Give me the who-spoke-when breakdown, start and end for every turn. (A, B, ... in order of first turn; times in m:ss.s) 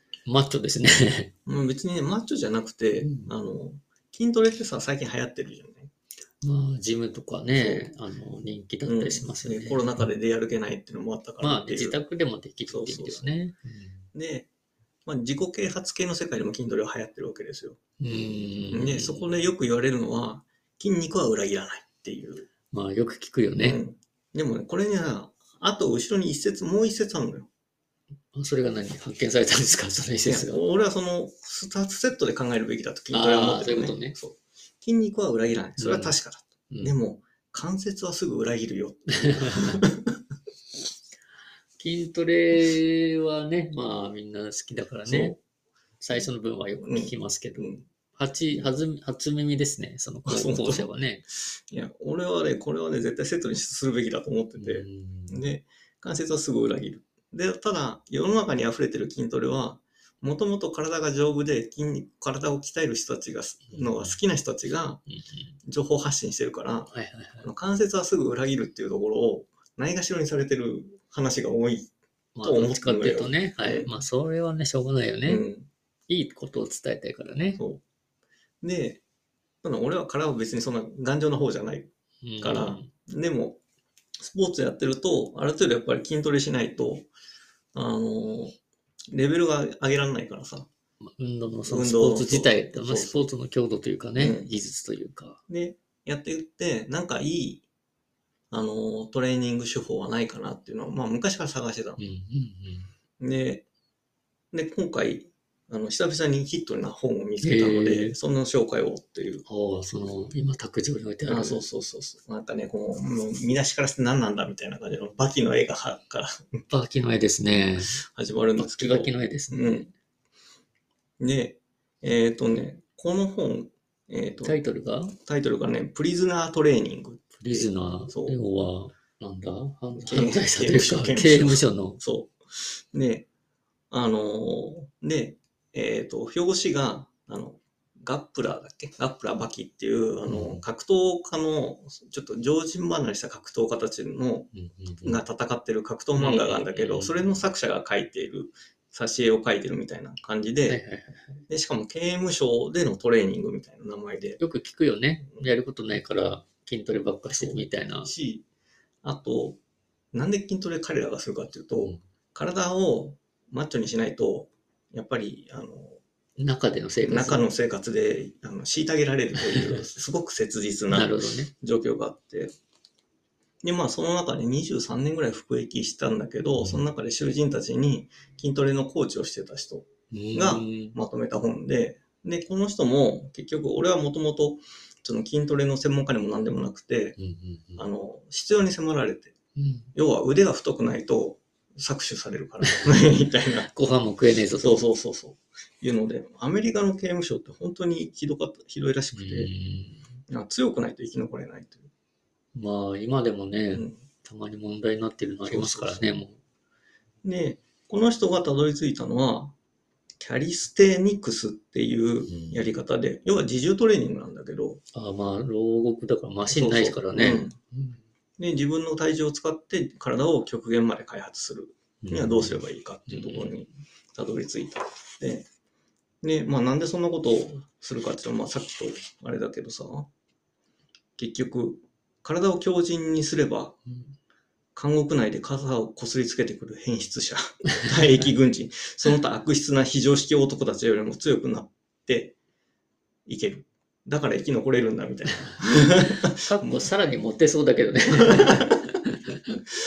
0:00.2-0:01.3 A
0:01.4-0:05.9 B
0:03.0-0:03.3 A
0:06.4-0:10.0 A
0:07.5-0:07.9 B
0:08.8-0:12.0 B
0:11.4-0:14.0 A
0:12.7-0:13.3 B
0:14.1-0:14.5 B
0:15.0-0:17.8 B
0:18.0-0:19.3 A
0:18.7-0:22.5 B
0:22.7-0:23.8 A
0:23.6-0:27.5 B
0:28.3-0:30.6 A
0:30.2-0:40.1 B
0:33.1-0:34.2 A
0:35.8-0:36.2 A
0:36.7-0:36.9 A
0:39.2-0:39.8 A
0:41.8-0:45.3 A
0:45.0-0:45.4 B
0:46.0-0:51.2 A
0:46.8-0:47.8 B
0:50.2-0:50.9 B
0:51.7-1:05.0 B
0:54.6-0:55.4 A
1:03.7-1:04.2 A
1:05.1-1:05.5 A
1:05.6-1:11.9 B
1:06.9-1:07.5 A
1:12.3-1:15.4 A
1:12.4-1:13.9 B
1:15.2-1:15.7 B
1:16.1-1:17.6 A
1:17.6-1:17.8 B
1:18.6-1:19.0 B
1:19.6-1:21.9 B
1:22.2-1:22.9 A
1:22.4-1:23.6 B
1:24.2-1:27.1 B
1:27.7-1:28.6 B
1:29.1-1:30.7 B
1:31.2-1:35.4 A
1:31.7-1:33.2 B
1:34.2-1:34.5 B
1:35.5-1:37.6 B
1:38.5-1:42.0 B
1:42.0-1:42.9 A
1:43.2-1:43.6 B
1:44.5-1:49.4 B
1:47.4-1:48.2 A
1:49.4-1:51.6 A
1:51.3-1:56.6 B
1:56.7-1:58.0 A
1:57.9-1:59.9 B
1:58.6-1:59.9 A
2:01.2-2:04.6 B
2:04.4-2:05.2 A
2:05.2-2:08.4 B
2:07.4-2:12.0 A
2:10.0-2:13.3 B
2:13.9-2:24.5 B
2:20.2-2:20.6 A
2:24.5-2:25.2 A
2:25.0-2:30.8 B
2:26.1-2:27.4 A
2:30.7-2:31.4 A
2:31.5-2:34.4 B
2:34.4-2:38.1 A
2:37.3-2:38.4 B
2:39.0-2:39.6 B
2:40.1-2:46.0 B
2:46.4-2:47.4 A
2:47.1-2:52.5 B
2:49.4-2:49.8 A
2:50.9-2:51.5 A
2:53.6-3:07.2 B
2:56.6-2:56.8 A
3:00.1-3:01.0 A
3:07.2-3:07.8 A
3:07.8-3:09.4 B
3:09.6-3:09.9 A
3:09.9-3:13.7 B
3:12.6-3:14.8 A
3:14.6-3:19.5 B
3:19.1-3:20.0 A
3:20.3-3:21.9 B
3:22.5-3:26.4 A
3:23.7-3:24.0 B
3:25.4-3:26.2 B
3:27.2-3:29.5 B
3:30.2-3:34.8 B
3:32.2-3:32.7 A
3:34.9-3:38.0 A
3:36.5-3:37.6 B
3:38.4-3:45.5 B
3:42.0-3:43.6 A
3:46.2-3:50.1 B
3:51.2-3:53.8 B
3:54.7-4:02.4 B
4:03.3-4:06.9 B
4:06.3-4:09.6 A
4:08.2-4:08.8 B